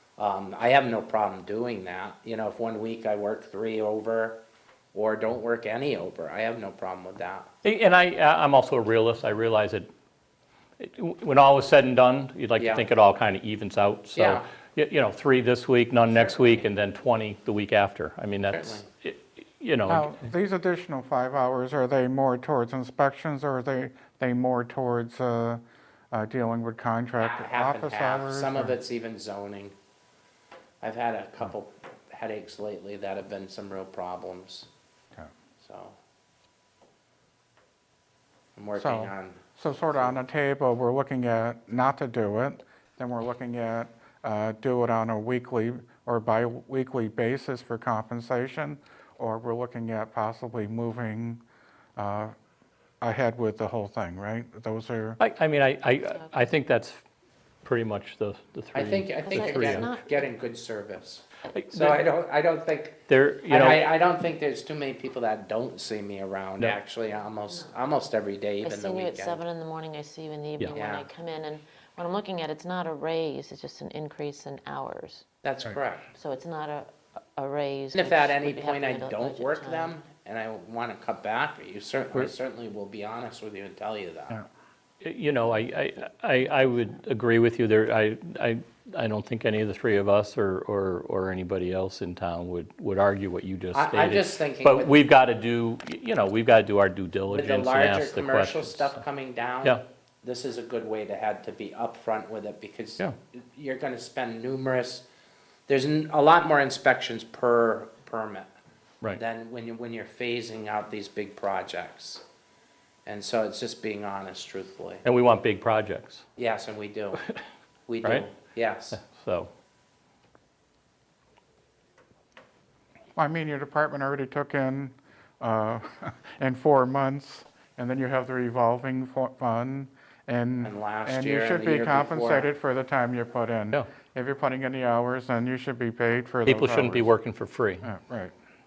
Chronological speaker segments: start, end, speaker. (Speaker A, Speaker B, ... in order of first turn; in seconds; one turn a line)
Speaker A: 0.2-4.4
Speaker A: 4.9-7.5
Speaker B: 7.6-9.9
Speaker B: 10.8-20.1
Speaker A: 12.6-12.9
Speaker A: 14.1-14.4
Speaker A: 16.1-16.7
Speaker A: 18.5-18.9
Speaker C: 19.9-28.8
Speaker A: 27.2-29.7
Speaker A: 30.8-34.7
Speaker A: 35.6-36.0
Speaker A: 38.5-40.2
Speaker C: 38.8-51.4
Speaker C: 52.0-52.3
Speaker C: 53.0-55.2
Speaker B: 55.2-57.0
Speaker B: 57.6-59.9
Speaker A: 58.7-69.4
Speaker D: 59.2-60.3
Speaker B: 61.5-62.0
Speaker B: 63.1-63.9
Speaker D: 68.6-75.2
Speaker A: 70.7-71.1
Speaker A: 75.4-76.1
Speaker D: 76.2-80.0
Speaker A: 77.9-84.4
Speaker B: 85.0-99.0
Speaker A: 93.7-95.0
Speaker A: 97.3-105.0
Speaker A: 105.7-108.5
Speaker A: 109.1-112.2
Speaker A: 113.0-115.0
Speaker B: 115.0-116.2
Speaker A: 116.4-117.2
Speaker A: 117.9-119.0
Speaker B: 118.0-118.3
Speaker B: 118.9-119.5
Speaker C: 123.2-137.1
Speaker A: 130.6-132.5
Speaker B: 136.4-137.9
Speaker C: 137.8-138.3